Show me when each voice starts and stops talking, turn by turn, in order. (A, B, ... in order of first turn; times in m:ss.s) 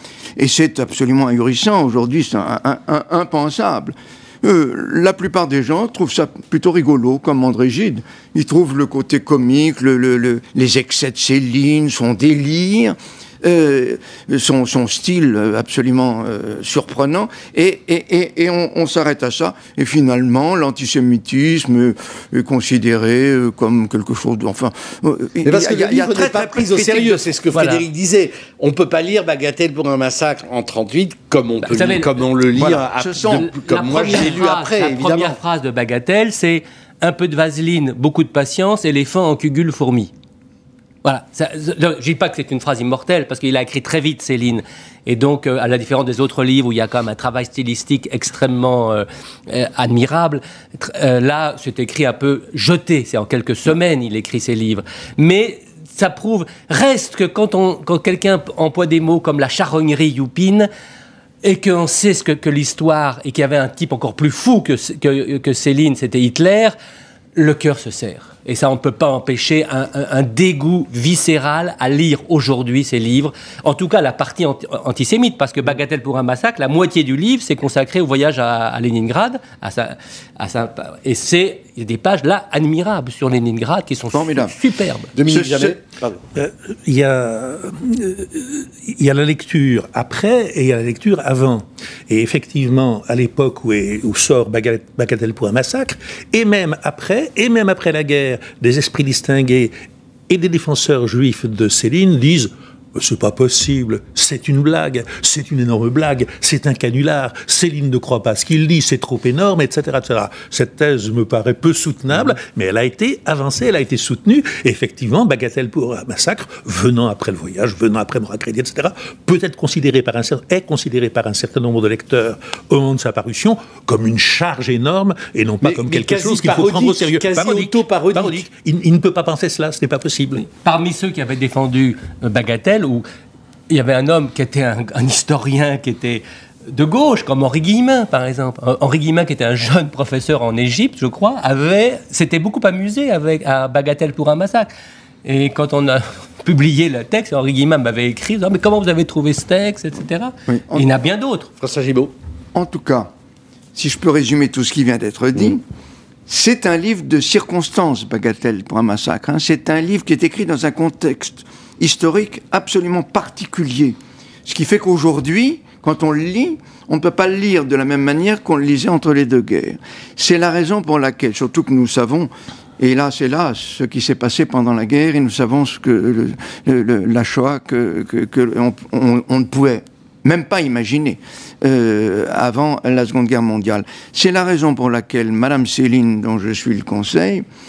0:00.4-0:27.2 A
0:25.4-0:35.4 B
0:27.5-0:27.9 C
0:31.7-0:32.1 C
0:32.6-0:33.5 A
0:33.2-0:40.1 C
0:41.0-1:00.7 C
1:01.4-1:06.8 C
1:07.4-1:25.1 C
1:24.1-1:24.6 A
1:25.2-1:26.2 B
1:25.3-1:25.8 A
1:26.4-1:39.7 D
1:40.3-2:10.5 D
2:05.6-2:08.5 B
2:10.5-2:13.0 C
2:13.7-2:24.7 C
2:25.2-2:31.5 C
2:30.5-2:30.9 A
2:31.6-2:32.1 B
2:32.6-2:33.1 A
2:33.8-2:35.6 A
2:36.3-3:07.5 A